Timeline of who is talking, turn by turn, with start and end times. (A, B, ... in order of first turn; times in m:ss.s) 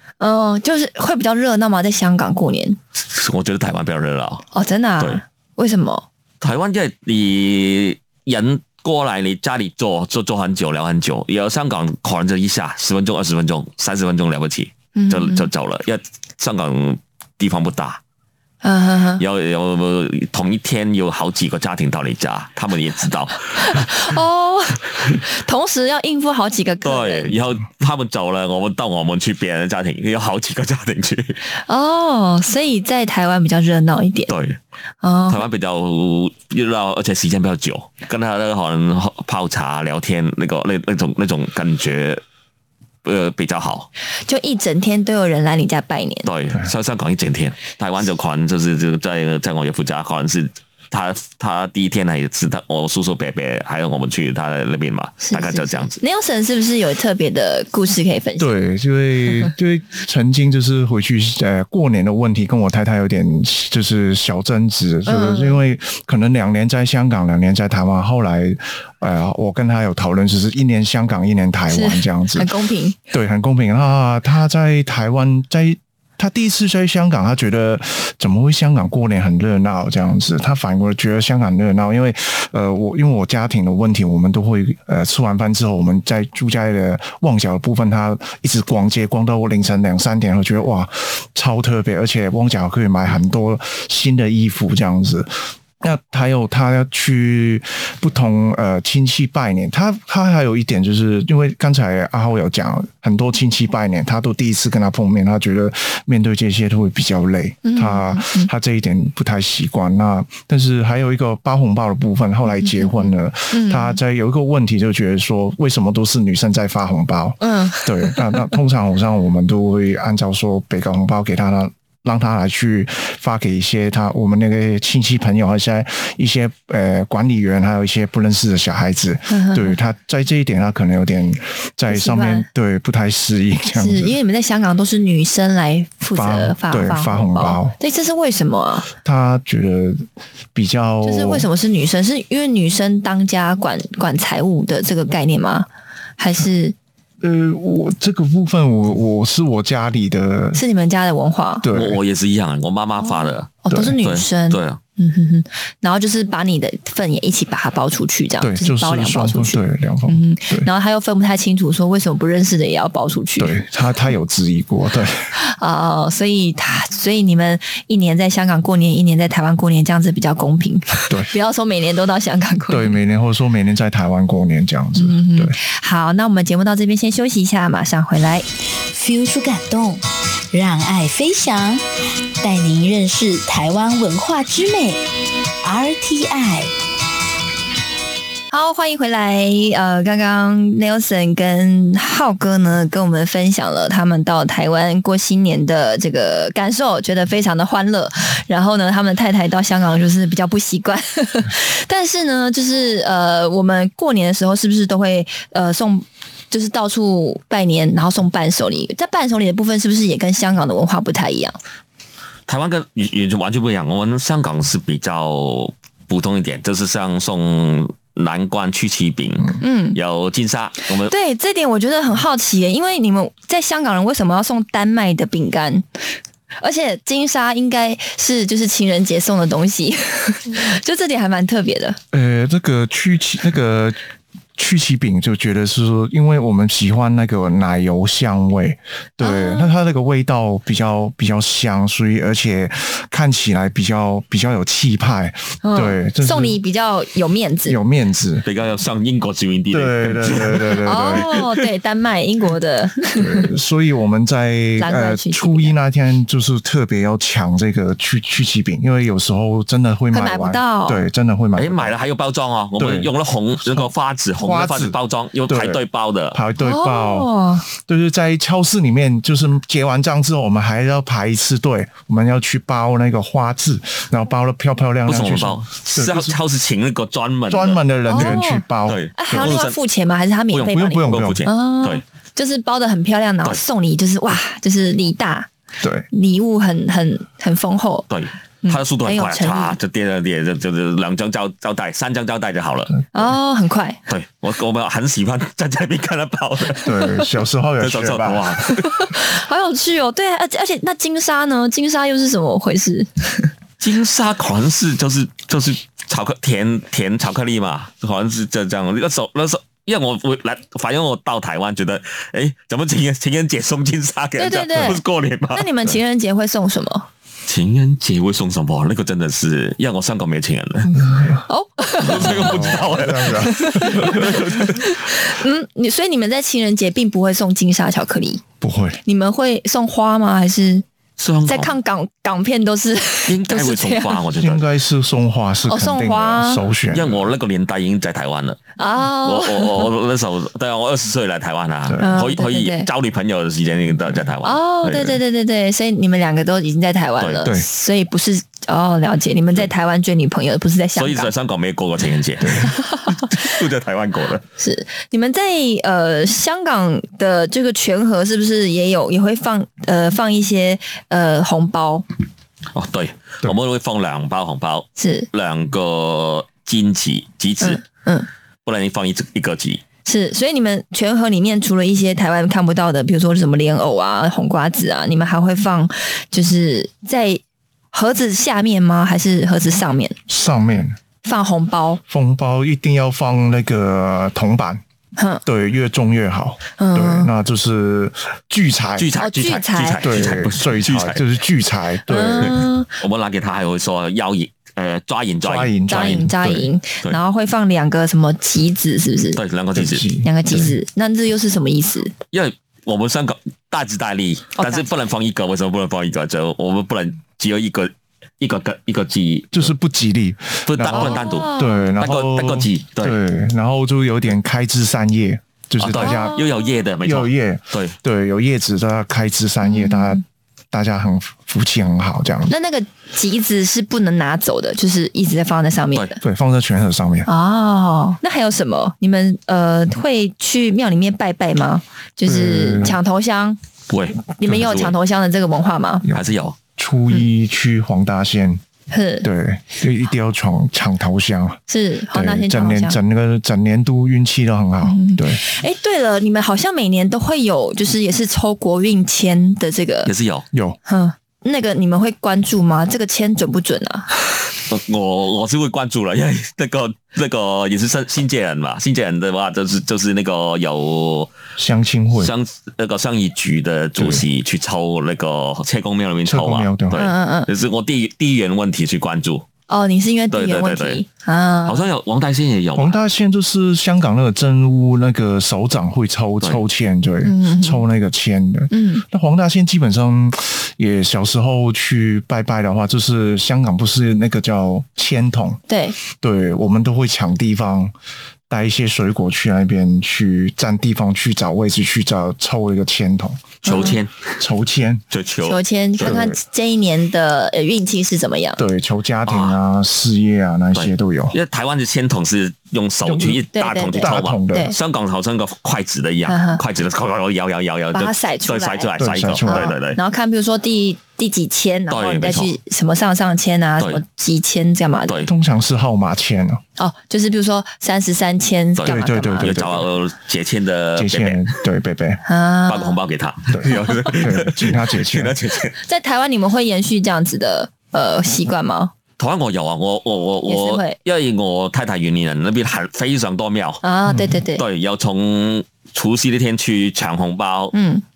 0:00.2-0:02.8 A
0:03.0-0:04.4 B
0:04.5-0:06.0 A
0:06.4-0:18.0 B
0:14.9-0:15.5 A
0:18.6-0:19.2 A
0:19.2-0:24.0 B
0:23.6-0:27.3 A
0:26.8-0:31.4 B
0:31.6-0:34.3 A
0:34.3-0:34.6 B
0:35.0-0:35.4 A
0:35.3-0:42.2 B
0:43.0-0:43.9 B
0:44.2-0:46.3 A
0:46.2-0:56.0 B
0:55.2-0:58.5 A
0:58.4-1:12.5 C
1:05.0-1:05.6 A
1:11.7-1:13.0 A
1:13.1-2:14.2 C
1:47.6-1:48.5 A
1:52.5-1:54.0 A
1:57.4-1:58.5 A
2:09.3-2:09.7 A
2:11.9-2:12.5 A
2:13.7-2:18.9 A
2:16.1-2:17.8 C
2:19.0-2:21.5 C
2:21.0-2:25.7 A
2:26.2-2:26.7 A
2:27.2-2:30.6 C
2:30.5-2:31.6 A
2:31.6-2:32.0 C
2:31.7-2:34.8 B
2:33.1-2:43.6 A
2:38.4-2:40.7 C
2:43.4-2:45.3 C
2:45.4-2:53.0 A
2:52.7-2:55.6 C
2:55.0-2:58.4 A
2:58.9-3:01.8 D
3:02.4-3:05.0 D
3:05.6-3:06.7 D
3:08.5-3:31.6 A
3:32.5-3:41.1 B
3:39.6-3:40.0 A
3:41.1-3:45.8 A
3:46.6-3:52.0 A
3:52.1-3:54.0 C
3:54.6-4:06.6 C
3:59.2-3:59.7 A
4:05.6-4:07.8 A
4:07.7-4:08.4 C
4:08.4-4:11.5 B
4:09.7-4:11.3 C
4:10.8-4:13.5 A
4:13.2-4:21.9 C
4:14.8-4:15.7 A
4:20.1-4:21.0 A
4:21.6-4:26.4 B
4:22.8-4:23.1 C
4:23.6-4:25.0 C
4:25.5-4:25.8 C
4:26.3-4:36.4 C
4:26.6-4:27.6 A
4:35.1-4:39.8 B
4:37.5-4:39.6 C
4:38.1-4:38.6 A
4:39.2-4:45.5 A
4:40.5-4:42.0 B
4:40.6-4:41.4 C
4:45.8-4:46.1 C
4:46.1-4:48.0 A
4:48.1-4:53.0 B
4:48.6-4:49.8 A
4:53.1-4:54.0 A
4:54.1-4:56.9 B
4:56.8-4:58.6 C
4:57.8-4:58.8 B
4:58.7-5:03.5 A
5:03.8-5:15.7 B
5:14.4-5:15.0 A
5:15.5-5:17.1 A
5:17.5-5:20.9 B
5:20.9-5:21.4 C
5:21.5-5:22.7 A
5:22.0-5:24.9 B
5:22.1-5:24.5 C
5:23.4-5:28.4 A
5:28.6-5:29.0 C
5:29.0-5:30.8 A
5:31.2-5:31.7 B
5:31.4-5:34.2 A
5:33.3-5:34.6 B
5:34.4-5:37.2 C
5:35.7-5:36.6 A
5:36.9-5:38.6 B
5:38.8-5:39.9 A
5:39.2-5:45.2 B
5:41.9-5:42.2 C
5:42.0-5:42.9 A
5:44.4-5:51.3 A
5:47.2-5:47.5 B
5:51.0-5:54.4 B
5:52.6-5:53.4 A
5:54.6-6:02.0 A
6:02.7-6:07.8 B
6:05.0-6:05.3 A
6:07.6-6:08.3 A
6:08.6-6:09.8 B
6:10.0-6:17.4 A
6:17.9-6:20.2 A
6:20.3-6:21.0 C
6:21.2-6:22.0 A
6:22.1-6:24.8 C
6:25.2-6:25.4 A
6:25.4-6:29.1 C
6:26.8-6:27.3 A
6:29.0-6:31.2 B
6:29.2-6:30.1 A
6:30.0-6:32.6 C
6:32.1-6:32.9 A
6:32.4-6:36.2 B
6:35.4-6:36.7 C
6:35.9-6:39.4 A
6:39.4-6:40.0 B
6:39.7-6:40.7 C
6:40.2-6:42.1 A
6:42.3-6:49.7 B
6:44.6-6:44.8 A
6:49.5-6:56.4 C
6:50.7-6:53.2 B
6:50.9-6:51.9 A
6:55.8-6:58.0 B
6:56.0-6:56.5 A
6:57.0-7:02.5 C
6:59.6-7:00.2 A
7:02.5-7:06.2 A
7:06.2-7:07.3 C
7:07.3-7:13.6 A
7:12.2-7:13.0 C
7:13.9-7:14.9 B
7:14.4-7:16.0 A
7:16.0-7:18.6 C
7:16.1-7:16.6 B
7:18.9-7:19.3 A
7:19.2-7:21.6 C
7:21.7-7:23.0 A
7:22.1-7:25.4 C
7:24.8-7:30.1 A
7:30.0-7:30.4 B
7:30.5-7:30.8 C
7:30.9-7:34.1 A
7:34.7-7:41.3 B
7:41.6-7:42.3 C
7:42.2-7:49.4 B
7:44.0-7:44.2 C
7:46.2-7:47.0 C
7:46.9-7:47.5 A
7:49.7-7:51.8 A
7:50.3-7:51.0 B
7:51.6-7:53.0 B
7:52.8-8:05.6 C
7:57.2-7:57.8 A
7:58.7-7:59.0 A
8:05.7-8:06.0 A
8:06.1-8:07.9 C
8:08.5-8:13.9 C
8:13.6-8:14.0 A
8:13.6-8:14.3 B
8:14.4-8:15.0 C
8:15.1-8:16.2 B
8:15.4-8:18.6 A
8:16.0-8:16.4 C
8:18.6-8:21.4 C
8:19.2-8:19.6 B
8:20.7-8:30.0 B
8:23.0-8:23.4 C
8:23.5-8:24.7 A
8:24.0-8:24.7 C
8:26.3-8:26.6 A
8:27.9-8:28.9 A
8:29.0-8:29.7 C
8:29.4-8:35.2 A
8:31.9-8:32.5 B
8:35.2-8:36.6 C
8:36.8-8:39.5 A
8:38.8-8:41.5 B
8:38.8-8:39.9 C
8:41.0-8:42.2 C
8:42.2-8:43.0 A
8:42.7-8:45.7 B
8:43.5-8:45.4 C
8:45.8-8:48.9 A
8:49.2-8:53.8 B
8:50.5-8:51.0 A
8:53.8-8:54.6 A
8:54.6-8:57.7 B
8:57.7-8:58.0 A